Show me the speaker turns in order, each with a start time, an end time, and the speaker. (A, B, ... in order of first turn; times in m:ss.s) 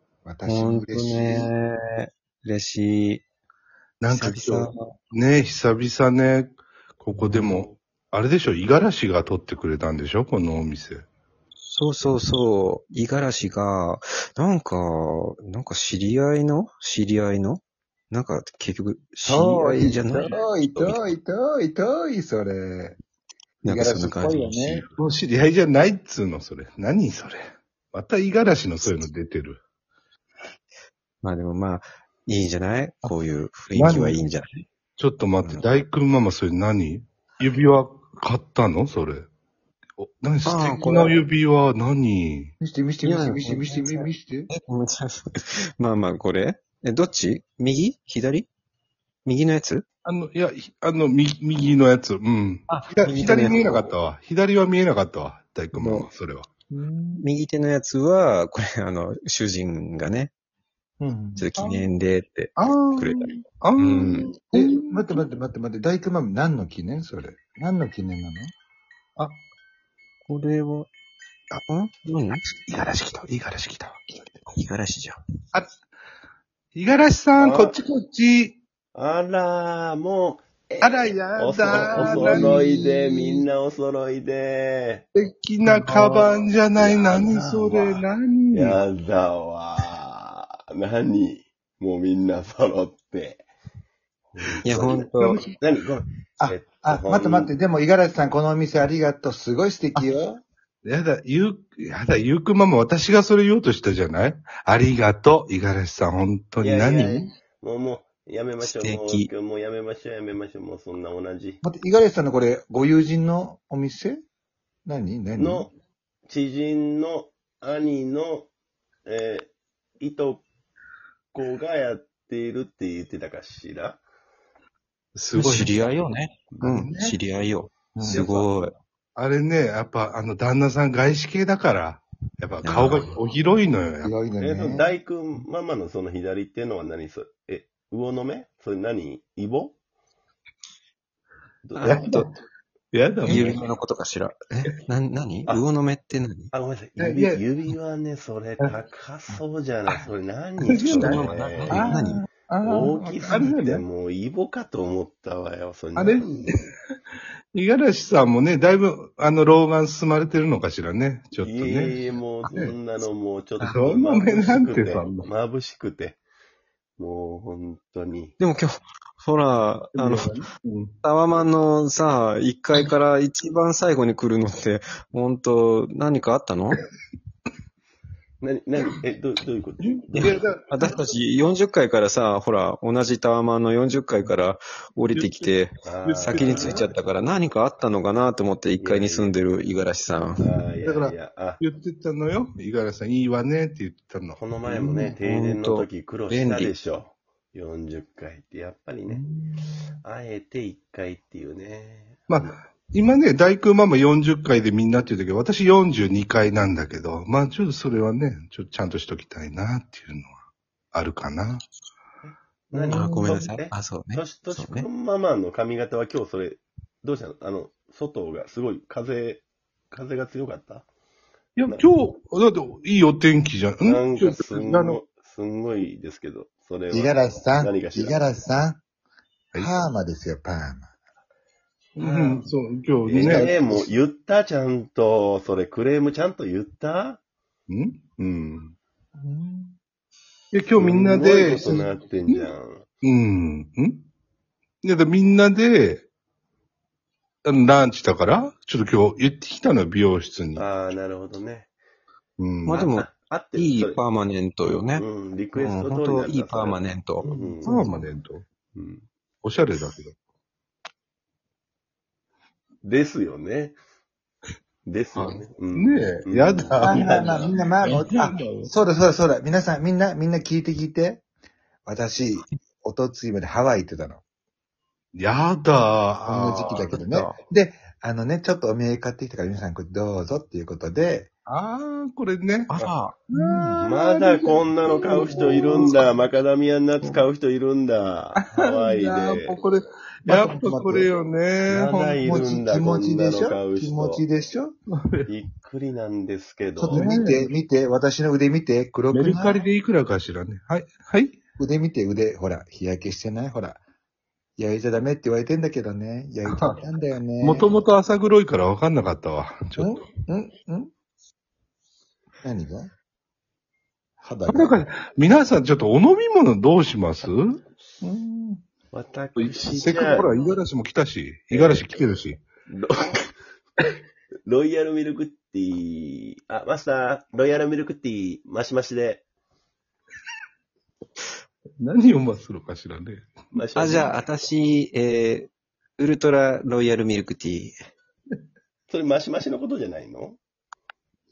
0:00.2-0:01.5 A
0:00.5-0:03.2 B
0:04.0-0:11.1 C
0:04.1-0:04.8 B
0:07.1-0:07.7 B
0:11.7-0:21.1 B
0:19.2-0:23.0 A
0:23.6-0:24.9 A
0:23.6-0:24.9 B
0:25.0-0:29.6 C
0:31.2-0:34.6 B
0:33.8-0:34.2 C
0:35.0-0:39.3 C
0:35.4-0:35.7 B
0:40.0-0:42.5 C
0:40.4-0:41.2 B
0:42.6-0:44.5 A
0:43.0-0:48.5 B
0:49.2-0:49.8 B
0:50.0-0:56.5 C
0:52.7-0:53.9 B
0:55.7-0:56.1 B
0:56.7-0:57.2 A
0:57.2-1:00.3 B
1:01.0-1:01.5 A
1:01.4-1:04.3 B
1:01.6-1:01.8 C
1:02.6-1:05.2 C
1:04.0-1:04.3 D
1:04.5-1:08.5 A
1:10.3-1:10.9 B
1:11.6-1:12.5 B
1:12.7-1:14.0 C
1:14.5-1:15.2 B
1:16.7-1:18.6 C
1:17.4-1:17.8 D
1:19.0-1:25.0 D
1:20.8-1:22.7 C
1:22.0-1:23.4 A
1:25.1-1:28.8 C
1:25.6-1:26.3 B
1:26.7-1:33.4 D
1:34.3-1:37.5 D
1:34.6-1:35.5 B
1:36.4-1:40.4 A
1:40.8-1:47.3 C
1:46.6-1:51.6 D
1:48.6-1:49.3 B
1:51.6-1:54.2 A
1:54.9-1:55.7 A
1:55.4-1:55.7 D
1:56.3-1:58.5 D
1:59.1-2:00.4 D
2:01.3-2:04.0 D
2:05.2-2:05.7 C
2:05.3-2:08.7 B
2:06.5-2:06.9 D
2:06.7-2:07.2 C
2:08.0-2:08.3 A
2:08.0-2:08.5 D
2:09.2-2:14.1 C
2:12.6-2:13.1 B
2:14.0-2:14.9 A
2:14.4-2:19.8 D
2:21.6-2:22.0 D
2:21.8-2:22.3 B
2:21.8-2:22.3 C
2:22.9-2:23.6 C
2:23.2-2:26.5 B
2:26.5-2:31.9 D
2:27.0-2:27.4 C
2:30.7-2:31.3 C
2:30.7-2:32.2 B
2:31.7-2:33.4 A
2:32.6-2:36.5 D
2:33.0-2:33.8 C
2:36.0-2:36.6 C
2:37.5-2:42.0 C
2:41.4-2:46.2 D
2:43.6-2:45.3 C
2:47.0-2:48.4 D
2:48.4-2:50.4 B
2:49.9-2:50.9 C
2:51.0-2:56.8 B
2:58.4-3:00.4 D
3:00.1-3:00.9 C
3:00.2-3:10.5 B
3:05.1-3:06.9 C
3:05.8-3:06.9 D
3:08.8-3:09.4 D
3:10.4-3:11.6 D
3:10.8-3:14.4 C
3:14.4-3:19.2 D
3:14.8-3:15.2 A
3:15.2-3:16.7 B
3:20.0-3:22.6 D
3:22.3-3:30.4 C
3:30.9-3:31.6 C
3:32.2-3:40.9 D
3:32.7-3:33.4 A
3:32.9-3:34.9 B
3:41.6-3:45.0 C
3:43.8-3:48.2 D
3:46.9-3:48.8 A
3:49.6-3:50.9 A
3:52.0-3:53.5 C
3:52.0-3:52.5 D
3:53.0-3:57.2 D
3:53.2-3:54.0 A
3:57.7-3:58.7 C
3:59.2-3:59.8 A
4:00.5-4:02.5 C
4:00.8-4:02.8 D
4:03.0-4:04.1 C
4:04.8-4:06.1 C
4:07.4-4:10.6 C
4:10.6-4:11.7 D
4:12.4-4:12.9 C
4:12.7-4:18.1 B
4:12.7-4:14.0 D
4:14.9-4:17.7 D
4:17.6-4:18.4 C
4:18.8-4:19.1 D
4:19.4-4:20.2 C
4:22.8-4:23.8 D
4:24.9-4:27.8 D
4:25.2-4:28.7 C
4:26.8-4:31.2 A
4:31.9-4:34.2 A
4:35.2-4:36.9 C
4:36.3-4:41.3 A
4:36.9-4:37.4 B
4:41.5-4:42.7 C
4:42.7-4:43.2 B
4:43.3-4:46.1 C
4:43.3-4:43.9 A
4:43.8-4:49.6 D
4:45.1-4:46.0 A
4:48.4-4:52.3 C
4:50.3-4:51.1 A
4:51.7-4:54.2 D
4:52.2-4:54.8 A
4:55.0-4:55.3 C
4:55.3-4:57.1 D
4:56.8-4:59.6 A
4:56.9-4:57.5 C
4:59.1-5:01.4 C
5:01.6-5:03.8 A
5:04.6-5:07.7 A
5:07.4-5:10.1 C
5:09.8-5:10.9 A
5:12.4-5:12.9 A
5:14.2-5:14.8 A
5:14.5-5:17.6 C
5:18.0-5:18.6 A
5:18.9-5:20.3 D
5:19.4-5:22.4 C
5:21.5-5:21.9 D
5:22.7-5:23.4 D
5:24.5-5:29.2 D
5:31.8-5:33.3 C
5:33.5-5:34.2 D
5:33.8-5:37.8 B
5:38.9-5:40.4 D